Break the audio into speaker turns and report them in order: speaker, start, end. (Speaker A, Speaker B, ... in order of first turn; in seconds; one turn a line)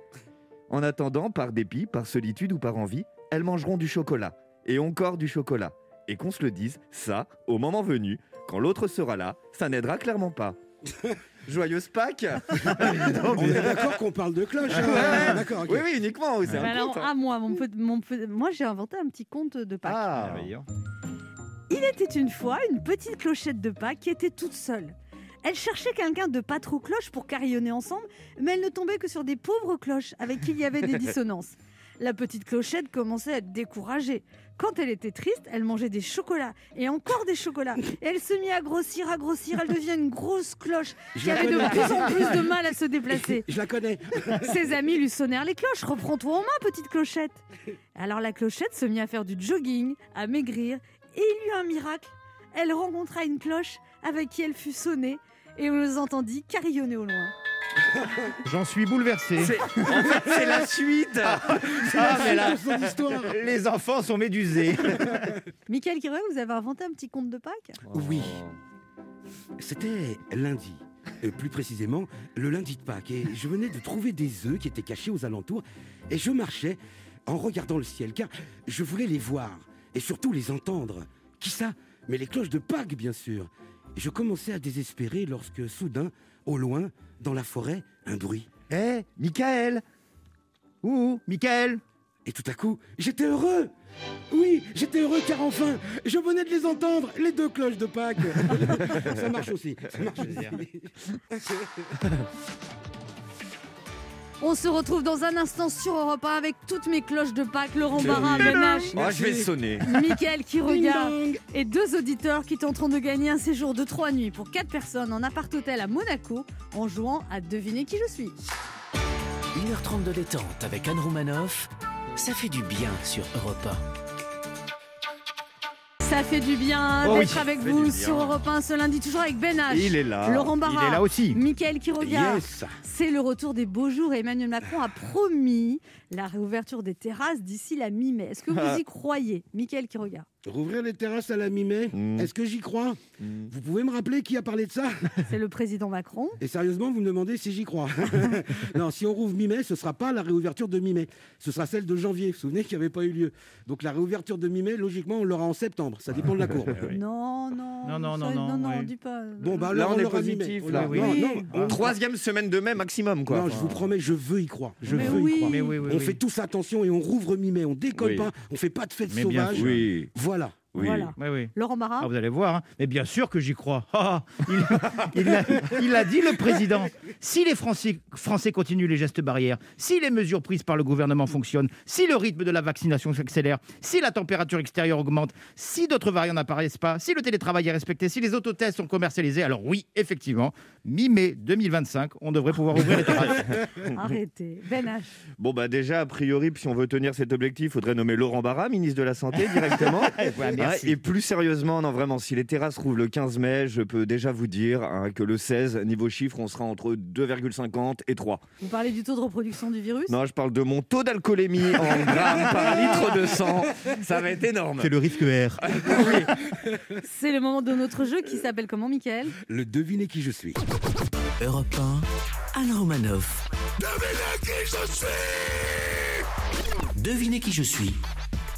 Speaker A: 0.7-10.6
Speaker A: 11.5-13.9
Speaker B: 13.3-15.9
Speaker A: 14.8-17.1
Speaker C: 14.8-15.4
Speaker D: 16.6-20.4
Speaker C: 19.8-20.7
Speaker D: 21.7-43.5
Speaker B: 41.1-42.4
Speaker B: 43.1-44.5
Speaker D: 44.4-47.4
Speaker D: 48.0-57.3
Speaker C: 58.4-59.7
Speaker A: 59.4-61.5
Speaker C: 61.2-62.7
Speaker B: 61.7-63.4
Speaker C: 63.2-65.4
Speaker D: 65.7-67.8
Speaker A: 67.9-68.6
Speaker B: 67.9-68.4
Speaker B: 69.6-88.5
Speaker A: 88.7-89.8
Speaker C: 90.8-91.8
Speaker B: 92.3-93.7
Speaker B: 94.3-101.9
Speaker C: 100.3-100.5
Speaker D: 104.4-108.9
Speaker B: 108.0-109.9
Speaker A: 109.0-109.8
Speaker D: 109.8-118.4
Speaker B: 110.7-111.4
Speaker E: 119.5-123.8
Speaker D: 126.0-140.3
Speaker C: 127.0-127.5
Speaker A: 127.2-128.5
Speaker A: 129.7-130.5
Speaker C: 130.6-131.4
Speaker B: 132.0-132.7
Speaker A: 138.5-138.8
Speaker B: 140.5-145.2
Speaker A: 141.9-142.3
Speaker A: 143.2-143.5
Speaker D: 145.3-146.4
Speaker B: 146.4-156.8
Speaker C: 156.7-157.0
Speaker D: 156.9-159.7
Speaker C: 157.9-158.9
Speaker B: 159.4-161.9
Speaker A: 159.7-161.1
Speaker C: 160.7-161.8
Speaker D: 161.0-161.6
Speaker A: 161.6-163.9
Speaker B: 163.3-170.6
Speaker D: 164.9-165.7
Speaker C: 164.9-166.2
Speaker A: 168.0-168.3
Speaker C: 169.1-169.8
Speaker A: 169.5-170.1
Speaker A: 170.7-171.1
Speaker D: 170.8-172.1
Speaker C: 171.2-193.6
Speaker D: 193.9-195.1
Speaker A: 195.4-208.4
Speaker C: 200.1-201.0
Speaker D: 208.6-210.2
Speaker A: 210.1-215.0
Speaker C: 214.8-216.3
Speaker A: 215.6-216.3
Speaker D: 217.0-219.4
Speaker B: 219.5-220.6
Speaker E: 221.4-223.4
Speaker B: 223.9-225.5
Speaker E: 227.0-228.0